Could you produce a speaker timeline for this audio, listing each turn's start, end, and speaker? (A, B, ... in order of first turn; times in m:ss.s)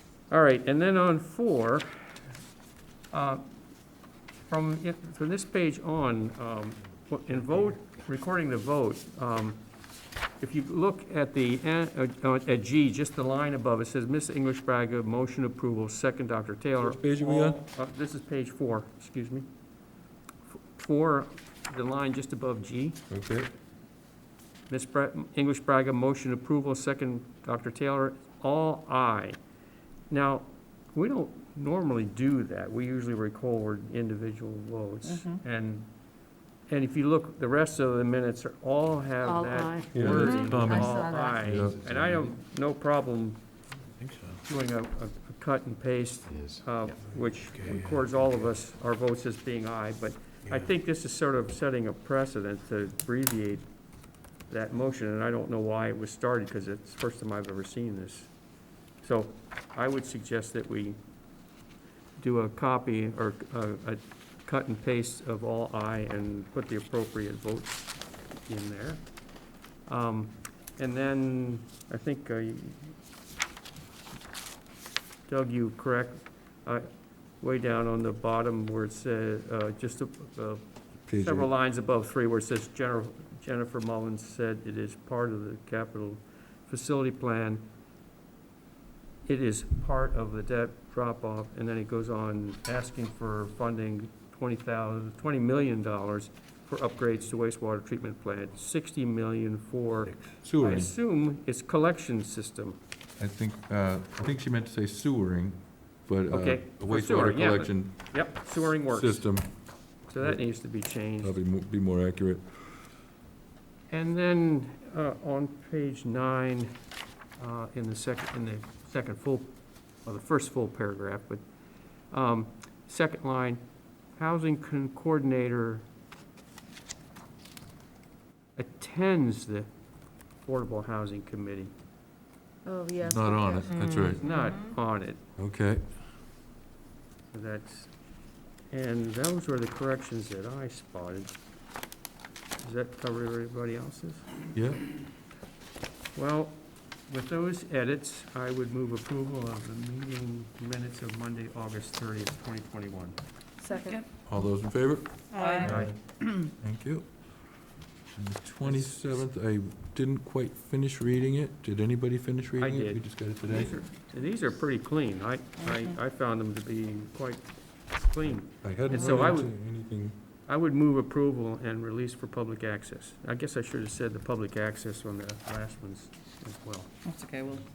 0:00.3-0:02.1 A
0:03.1-0:03.5 A
0:04.5-0:09.6 A
0:10.4-0:19.5 A
0:16.8-0:17.6 B
0:20.7-0:23.0 A
0:23.1-0:23.5 B
0:24.7-0:29.4 A
0:30.1-0:35.9 A
0:35.0-0:35.4 C
0:36.7-0:43.4 A
0:39.2-0:41.4 D
0:39.9-0:42.3 B
0:44.0-0:44.4 E
0:44.4-0:53.7 A
0:46.3-0:48.3 E
0:50.5-0:50.7 E
0:54.5-0:58.3 A
0:59.0-1:01.0 A
1:02.2-1:09.1 A
1:09.9-1:12.9 A
1:15.3-1:16.9 A
1:17.4-1:27.6 A
1:21.1-1:21.5 B
1:29.2-1:42.8 A
1:40.4-1:40.9 B
1:43.2-1:52.8 B
1:46.3-1:49.4 A
1:50.0-1:51.4 A
1:53.9-1:56.7 A
1:57.4-1:59.5 A
2:00.0-2:01.4 A
2:02.1-2:03.6 A
2:04.2-2:05.8 A
2:08.6-2:09.7 A
2:10.4-2:11.7 A
2:12.6-2:14.6 D
2:13.0-2:14.3 B
2:14.1-2:15.2 A
2:15.4-2:16.0 B
2:17.3-2:17.9 A
2:18.7-2:21.4 A
2:22.6-2:24.3 A
2:24.5-2:25.0 B
2:26.1-2:33.2 A
2:33.6-2:34.0 D
2:33.7-2:34.1 C
2:34.2-2:43.8 B
2:35.3-2:36.5 C
2:35.6-2:35.9 A
2:42.6-2:47.5 A
2:45.6-2:45.9 C
2:48.0-2:49.5 A
2:48.6-2:50.2 B
2:50.5-2:56.9 A
2:57.0-2:57.6 C